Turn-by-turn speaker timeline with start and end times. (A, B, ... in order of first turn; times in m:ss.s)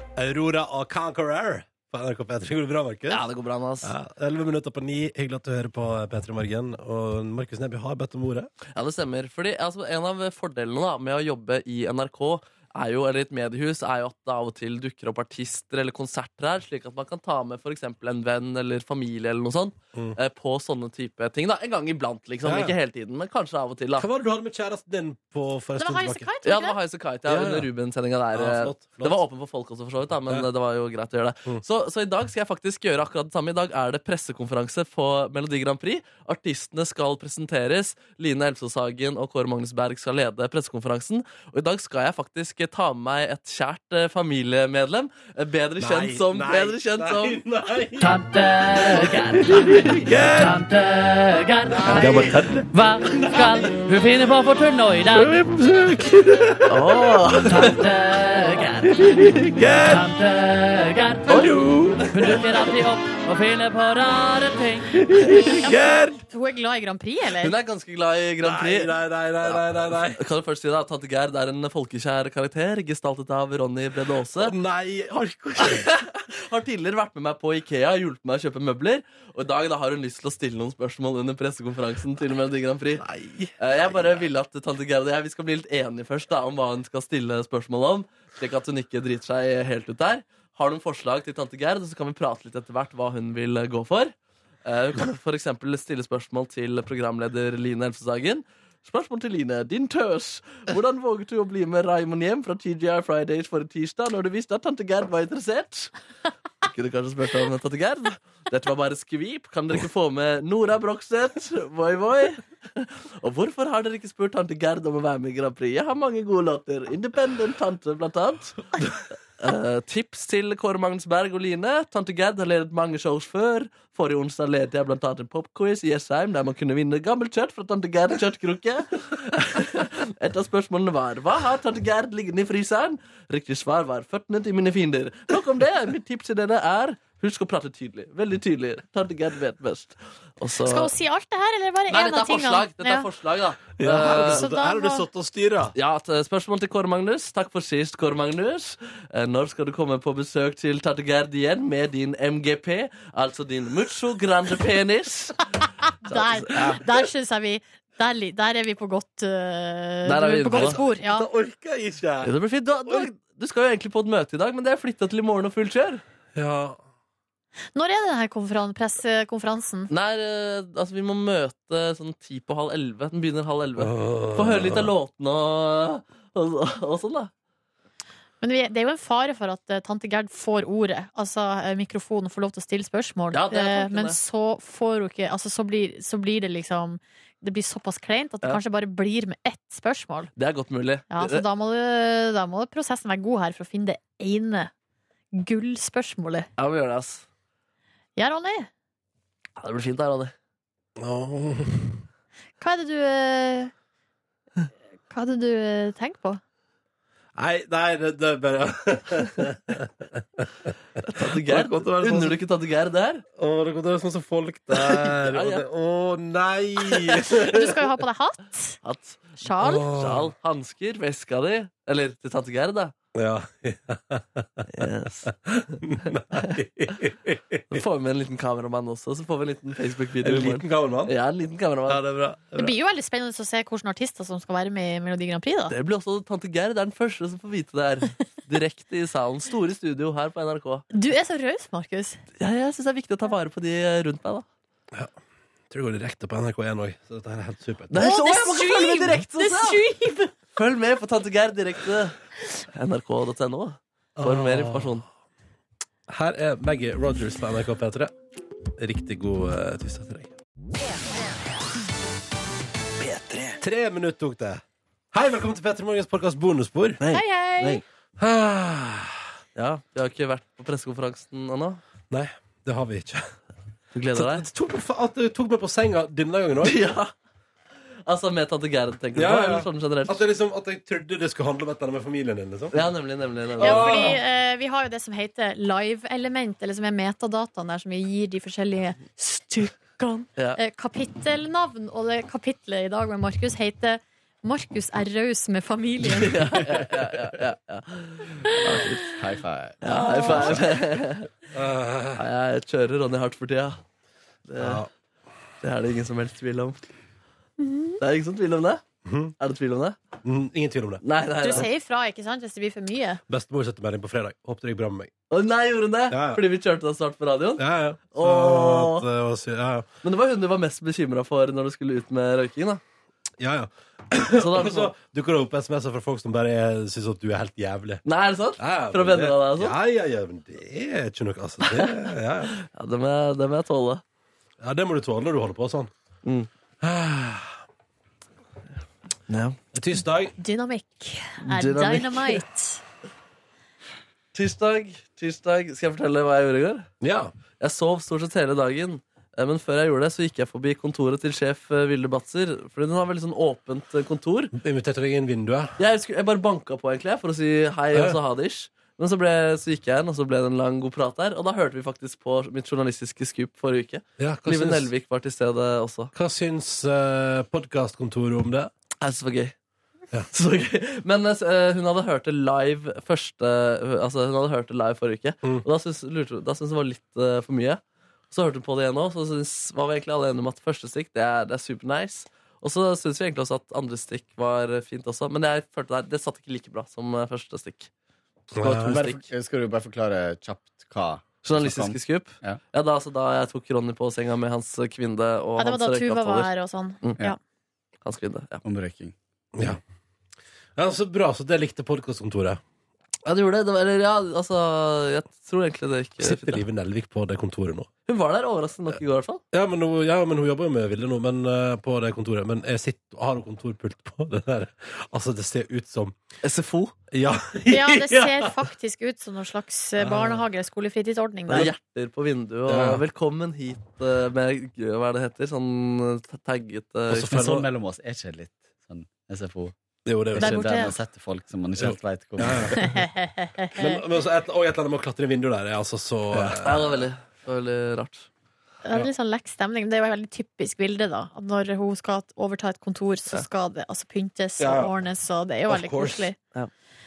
0:00.2-0:03.2 A
0:03.1-0:03.9 B
0:03.8-0:08.5 A
0:08.8-0:24.1 B
0:22.4-0:22.7 A
0:24.0-0:26.3 A
0:25.8-0:26.8 C
0:26.4-0:47.5 B
0:27.3-0:27.7 A
0:28.3-0:29.2 A
0:45.8-0:48.2 A
0:48.0-0:49.5 D
0:48.9-0:50.4 B
0:50.0-0:50.5 A
0:50.3-0:55.4 D
0:51.9-0:52.5 A
0:51.9-0:52.6 B
0:53.1-0:53.4 A
0:55.3-0:57.5 A
0:56.6-0:57.7 B
0:57.4-0:59.3 D
0:59.0-0:59.8 B
0:59.5-1:00.0 A
0:59.8-1:01.6 D
1:01.3-1:02.4 B
1:01.3-1:02.4 A
1:02.1-1:04.9 D
1:05.0-1:06.2 A
1:05.2-1:05.6 B
1:05.6-1:07.6 C
1:07.4-1:09.6 B
1:08.4-1:10.2 A
1:10.2-1:14.6 B
1:14.4-1:16.0 A
1:15.6-1:23.1 B
1:23.0-1:24.0 A
1:23.6-1:34.1 B
1:34.6-1:45.9 B
1:46.6-1:58.7 B
1:59.4-2:20.9 B
2:20.6-2:23.1 C
2:21.9-2:24.4 B
2:23.8-2:25.8 A
2:24.2-2:25.1 C
2:25.8-2:35.5 B
2:36.0-2:41.3 C
2:36.1-2:36.7 B
2:40.1-2:40.8 B
2:40.5-2:42.3 A
2:42.2-2:46.0 B
2:42.8-2:43.1 A
2:46.4-2:46.8 A
2:47.8-2:49.9 C
2:49.9-2:57.3 B
2:53.8-2:54.9 A
2:58.4-3:10.3 C
3:03.3-3:04.2 B
3:10.4-3:11.4 B
3:11.1-3:14.7 C
3:15.3-3:16.5 C
3:16.6-3:17.2 B
3:18.2-3:18.7 C
3:19.6-3:20.3 B
3:21.0-3:22.0 A
3:22.6-3:23.7 C
3:25.1-3:26.4 C
3:27.4-3:32.4 A
3:31.1-3:33.2 B
3:33.4-3:37.9 A
3:34.7-3:35.6 B
3:37.2-3:38.8 C
3:38.8-3:42.9 B
3:39.4-3:39.8 C
3:39.6-3:40.3 A
3:43.1-3:47.8 A
3:44.7-3:45.3 B
3:47.7-3:52.1 B
3:50.2-3:51.1 A
3:51.9-3:52.8 A
3:52.6-3:55.7 C
3:55.7-4:00.9 B
4:00.9-4:02.2 C
4:02.4-4:04.4 B
4:05.7-4:08.0 A
4:07.9-4:09.8 B
4:08.0-4:10.3 C
4:10.5-4:15.0 B
4:14.2-4:15.0 A
4:16.1-4:18.1 A
4:18.8-4:20.3 A
4:23.1-4:23.6 B
4:23.6-4:27.0 A
4:27.0-4:27.8 B
4:27.1-4:27.8 C
4:28.2-4:29.3 A
4:29.6-4:31.8 B
4:32.1-4:33.4 A
4:33.9-4:34.5 B
4:34.2-4:36.8 A
4:36.6-4:37.1 B
4:38.1-4:40.2 B
4:39.2-4:42.9 A
4:42.7-4:44.2 B
4:43.6-4:44.2 A
4:43.6-4:56.6 C
4:56.1-4:59.0 B
4:58.5-4:58.9 C
4:58.6-5:00.7 E
4:59.8-5:01.3 B
4:59.9-5:00.7 C
5:01.5-5:02.2 A
5:02.2-5:03.8 B
5:04.5-5:04.8 B
5:04.6-5:04.9 A
5:05.6-5:06.8 B
5:07.6-5:08.0 C
5:08.0-5:08.8 B
5:09.0-5:09.3 A
5:09.4-5:10.0 B
5:10.2-5:11.6 A
5:11.0-5:11.7 B
5:11.4-5:13.2 C
5:13.3-5:15.1 A
5:15.3-5:19.1 B
5:16.1-5:16.4 A
5:17.6-5:19.9 A
5:20.0-5:22.8 B
5:23.4-5:28.0 A
5:24.3-5:24.9 B
5:28.1-5:29.8 B
5:28.6-5:32.6 A
5:31.6-5:32.0 B
5:32.5-5:34.0 B
5:34.6-5:35.9 A
5:36.8-5:37.6 A
5:39.3-5:39.6 B
5:39.7-5:40.4 A
5:40.4-5:42.8 C
5:41.4-5:42.4 B
5:44.3-5:46.9 B
5:47.0-5:47.3 A
5:47.6-5:54.5 B
5:54.6-5:55.8 A
5:55.8-6:06.1 B
5:57.9-5:58.2 A
6:04.2-6:04.9 A
6:06.1-6:08.7 A
6:09.0-6:09.5 B
6:10.3-6:17.8 B
6:18.3-6:27.9 B
6:28.5-6:29.1 A
6:28.6-6:29.2 B
6:28.8-6:32.6 E
6:31.4-6:36.5 B
6:35.6-6:37.4 C
6:38.0-6:38.6 B
6:38.6-6:39.8 E
6:39.6-6:39.8 A
6:40.8-6:42.6 A
6:43.2-6:46.6 B
6:46.2-6:47.9 A
6:48.1-6:49.4 B
6:49.5-6:56.2 A
6:56.4-6:56.9 B
6:57.1-6:58.5 A
6:57.7-7:01.7 C
7:00.0-7:00.4 A
7:01.5-7:07.3 B
7:02.7-7:03.0 A
7:07.1-7:07.7 A
7:07.2-7:09.7 E
7:10.1-7:10.6 A
7:10.3-7:12.9 E
7:10.4-7:10.9 C
7:11.8-7:13.1 A
7:12.7-7:14.0 C
7:13.8-7:17.1 A
7:16.4-7:18.3 B
7:18.8-7:26.4 C
7:24.6-7:24.9 A
7:25.7-7:26.3 A